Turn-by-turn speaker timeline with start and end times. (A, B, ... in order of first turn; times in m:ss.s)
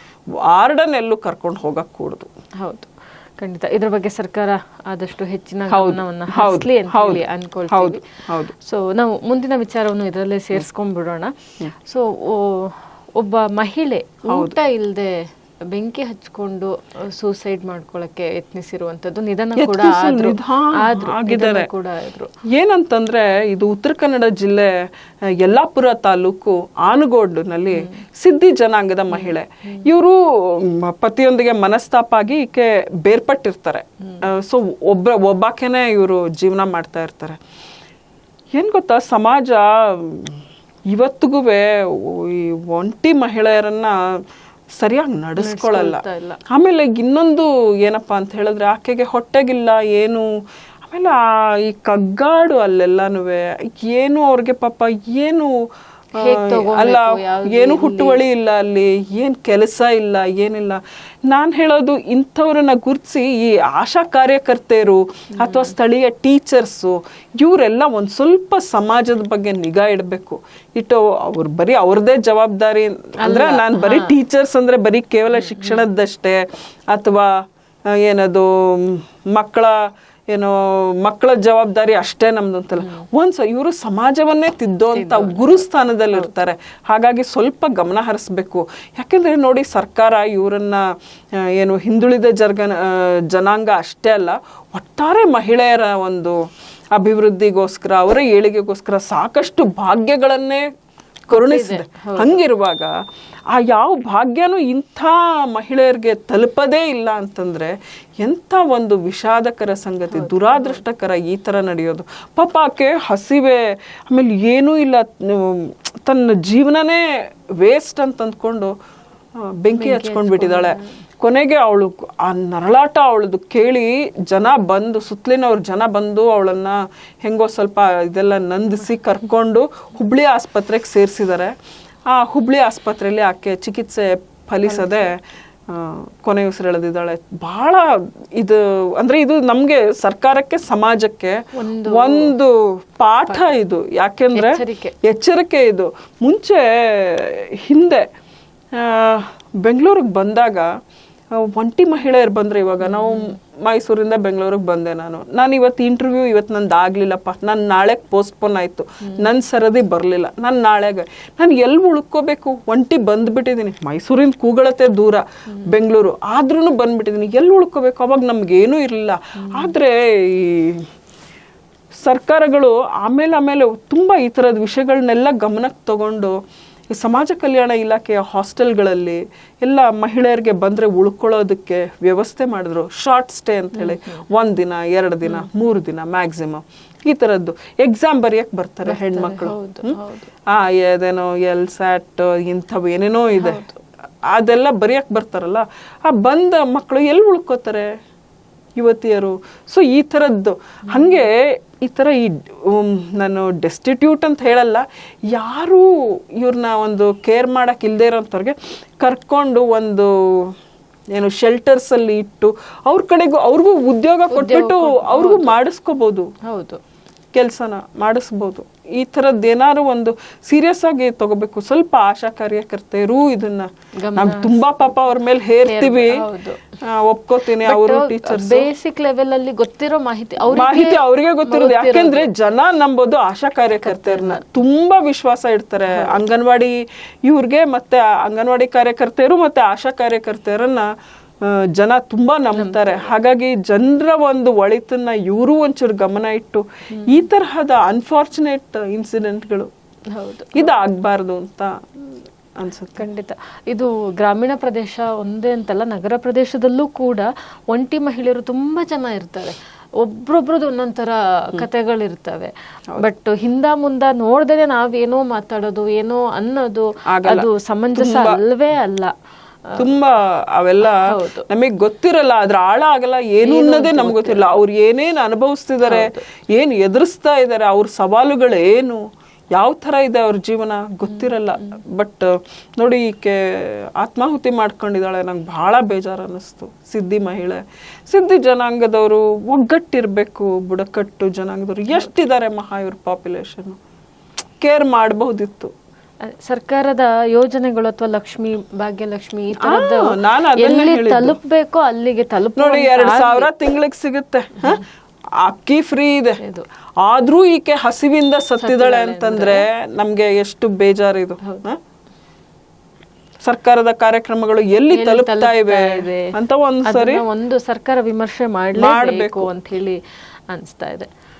0:00.4-0:02.3 A
0:02.6-0:08.0 B
0:05.7-0:08.5 A
0:08.6-0:22.3 B
0:14.3-0:14.6 A
0:19.6-0:21.7 A
0:22.5-0:37.4 A
0:27.7-0:28.0 B
0:29.1-0:29.8 B
0:38.5-0:44.2 A
0:44.8-0:55.6 A
0:45.4-0:46.4 B
0:56.2-0:58.2 B
0:56.3-1:17.3 A
1:05.4-1:05.7 B
1:13.2-1:14.1 B
1:15.4-1:15.8 B
1:17.9-1:30.8 A
1:24.9-1:26.3 B
1:31.4-1:36.4 A
1:36.9-1:40.6 A
1:41.3-1:42.9 A
1:41.3-1:42.4 B
1:43.5-1:57.0 A
1:50.1-1:50.8 B
1:57.6-1:58.7 A
1:59.6-2:11.5 A
1:59.7-2:00.9 B
2:12.1-2:28.0 A
2:14.7-2:15.1 B
2:21.6-2:22.3 B
2:24.3-2:24.9 B
2:28.8-2:30.7 A
2:31.3-2:50.9 A
2:32.8-2:33.4 B
2:49.4-2:49.7 B
2:52.0-2:56.4 A
2:56.9-3:13.6 A
3:03.8-3:04.2 B
3:08.8-3:10.3 B
3:13.4-3:13.8 B
3:14.3-3:17.9 A
3:18.8-3:25.8 A
3:20.9-3:21.2 B
3:26.4-3:30.5 A
3:31.1-3:36.3 A
3:34.3-3:35.6 B
3:36.4-3:36.8 B
3:37.3-3:46.2 A
3:44.0-3:44.6 B
3:45.6-3:46.7 B
3:46.8-3:48.7 A
3:47.6-3:52.3 B
3:50.5-4:00.9 A
3:53.8-3:54.4 B
3:55.9-3:56.2 B
4:01.4-4:09.7 A
4:02.5-4:03.1 B
4:06.9-4:07.2 B
4:10.1-4:10.7 B
4:10.5-4:13.0 A
4:13.0-4:29.1 B
4:27.1-4:28.4 A
4:29.8-4:39.0 A
4:30.8-4:31.4 B
4:33.4-4:34.6 B
4:35.8-4:36.2 B
4:39.5-4:53.8 A
4:54.6-4:55.7 A
4:56.3-5:03.5 B
4:59.6-5:01.4 A
5:02.6-5:04.8 A
5:05.4-5:06.4 A
5:06.4-5:06.6 B
5:07.0-5:11.8 A
5:08.6-5:09.6 B
5:13.4-5:17.2 A
5:14.9-5:16.3 B
5:16.8-5:21.1 B
5:18.8-5:19.5 A